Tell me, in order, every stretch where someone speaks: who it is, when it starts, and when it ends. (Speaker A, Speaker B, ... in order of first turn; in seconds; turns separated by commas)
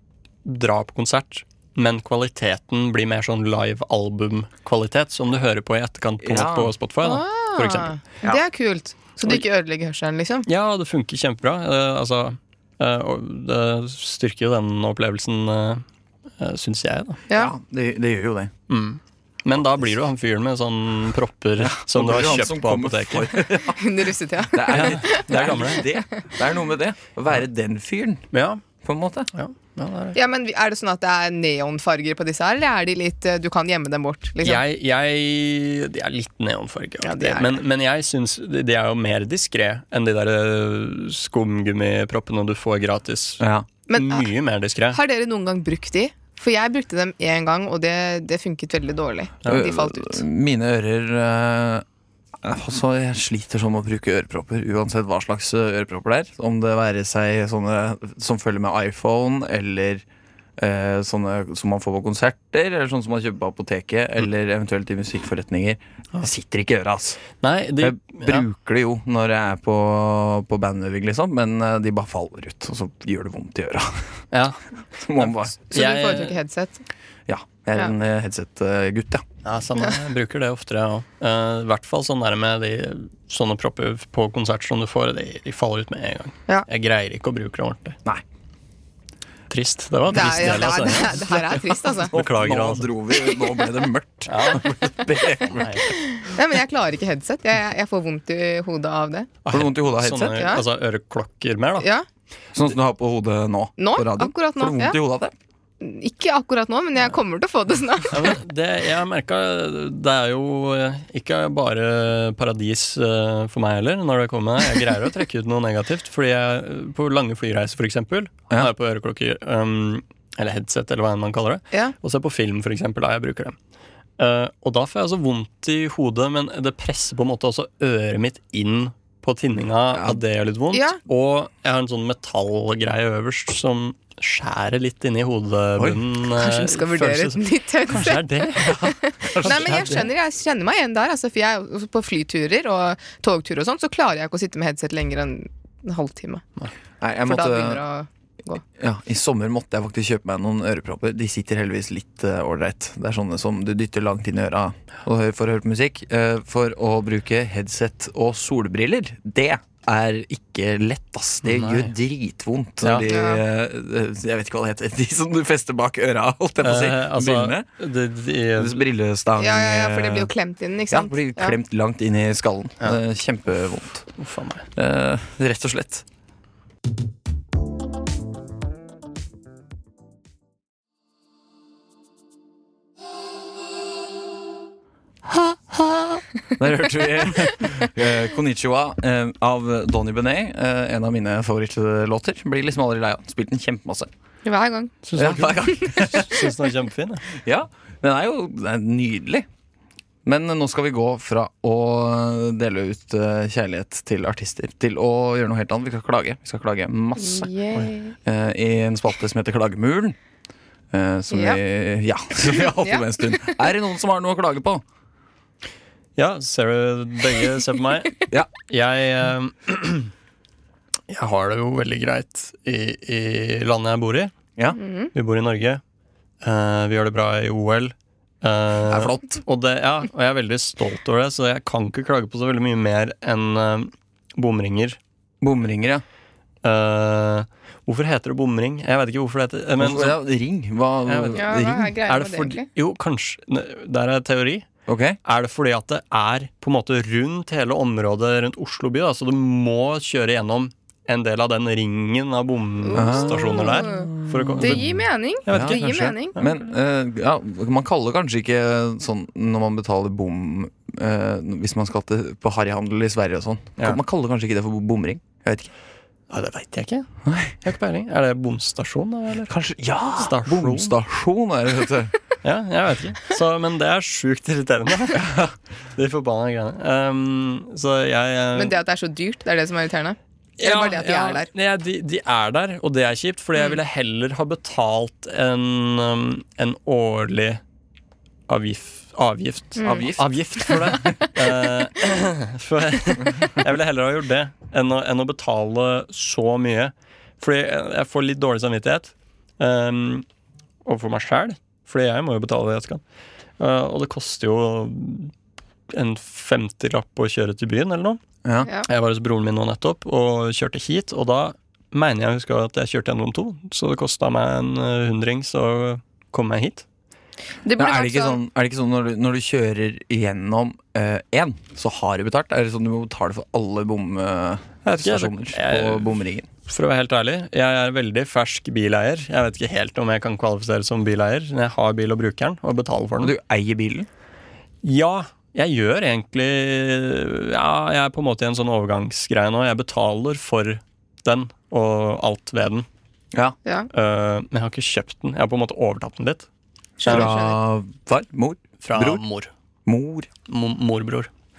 Speaker A: 0.5-8.1, Speaker B: 6.2-6.7, Speaker C: 7.0-10.5, Speaker A: 10.5-15.8, Speaker A: 16.4-17.2, Speaker B: 17.3-18.5, Speaker A: 18.7-23.4, Speaker B: 21.6-23.9, Speaker C: 23.7-25.8, Speaker B: 24.5-28.2, Speaker A: 24.7-25.8, Speaker A: 28.3-28.6, Speaker B: 28.8-29.3, Speaker A: 29.3-30.2, Speaker C: 30.1-34.6, Speaker A: 34.4-43.4, Speaker C: 37.0-37.6, Speaker B: 43.4-43.7, Speaker C: 43.9-44.3, Speaker A: 44.0-45.0, Speaker C: 44.9-50.2, Speaker B: 49.5-51.9, Speaker B: 52.4-60.0, Speaker B: 60.6-67.2, Speaker A: 67.4-68.5, Speaker B: 67.8-74.1, Speaker A: 74.3-76.4, Speaker B: 75.0-75.6, Speaker C: 75.7-76.8, Speaker B: 77.3-79.2, Speaker A: 79.5-88.0, Speaker A: 89.5-91.3, Speaker C: 90.1-92.1, Speaker B: 91.6-95.9, Speaker A: 92.1-92.9, Speaker C: 93.2-93.6, Speaker A: 94.3-94.8, Speaker A: 95.5-95.9, Speaker C: 95.8-99.3, Speaker A: 99.5-101.9, Speaker B: 99.5-100.5, Speaker C: 100.3-100.6, Speaker C: 101.8-102.1, Speaker B: 102.5-105.3, Speaker C: 103.8-105.0, Speaker C: 105.8-108.3, Speaker A: 108.1-123.6, Speaker A: 124.2-140.1, Speaker B: 129.9-130.2, Speaker C: 130.7-131.0, Speaker C: 136.3-146.4, Speaker B: 138.6-140.0, Speaker B: 147.0-147.8, Speaker C: 147.3-148.6, Speaker B: 148.8-167.7, Speaker A: 161.4-161.9, Speaker C: 163.1-163.4, Speaker A: 166.6-168.8, Speaker B: 168.6-170.3, Speaker C: 169.4-171.6, Speaker B: 170.9-174.1, Speaker A: 174.2-174.7, Speaker B: 174.8-176.1, Speaker B: 186.6-194.1, Speaker C: 194.4-195.0, Speaker A: 195.1-197.3, Speaker B: 195.2-196.4, Speaker B: 197.4-199.5, Speaker B: 200.3-207.5, Speaker C: 207.2-208.1, Speaker B: 208.2-210.2, Speaker B: 210.9-214.8, Speaker C: 211.3-211.6, Speaker C: 212.5-213.6, Speaker A: 216.2-220.1, Speaker A: 221.1-224.3, Speaker C: 224.8-225.1, Speaker A: 225.1-225.8, Speaker A: 226.4-235.0, Speaker B: 228.9-229.4, Speaker B: 235.4-236.0, Speaker A: 236.6-240.2, Speaker B: 239.8-242.0, Speaker A: 241.1-241.5, Speaker C: 241.3-242.7, Speaker A: 242.1-244.7, Speaker B: 244.9-245.2, Speaker A: 245.2-256.5, Speaker C: 252.8-256.4, Speaker B: 252.9-254.8, Speaker B: 255.5-265.7, Speaker A: 266.3-267.1, Speaker B: 267.2-267.6, Speaker A: 267.6-269.5, Speaker B: 269.5-272.1, Speaker A: 270.2-271.0, Speaker A: 272.4-275.3, Speaker B: 275.1-275.5, Speaker A: 275.9-278.8, Speaker C: 278.6-281.5, Speaker A: 280.6-287.6, Speaker A: 288.5-300.2, Speaker C: 289.8-290.1, Speaker B: 289.8-290.3, Speaker A: 300.9-303.0, Speaker A: 303.6-305.3, Speaker A: 305.9-308.2, Speaker A: 308.9-316.9, Speaker C: 317.6-318.4, Speaker B: 317.8-326.5, Speaker A: 324.9-326.1, Speaker A: 326.7-333.4, Speaker B: 333.2-334.1, Speaker A: 334.8-342.9, Speaker A: 343.9-346.5, Speaker C: 347.0-347.6, Speaker A: 347.1-347.3, Speaker B: 347.1-349.2, Speaker A: 348.8-349.5, Speaker B: 349.9-350.3, Speaker A: 350.5-351.3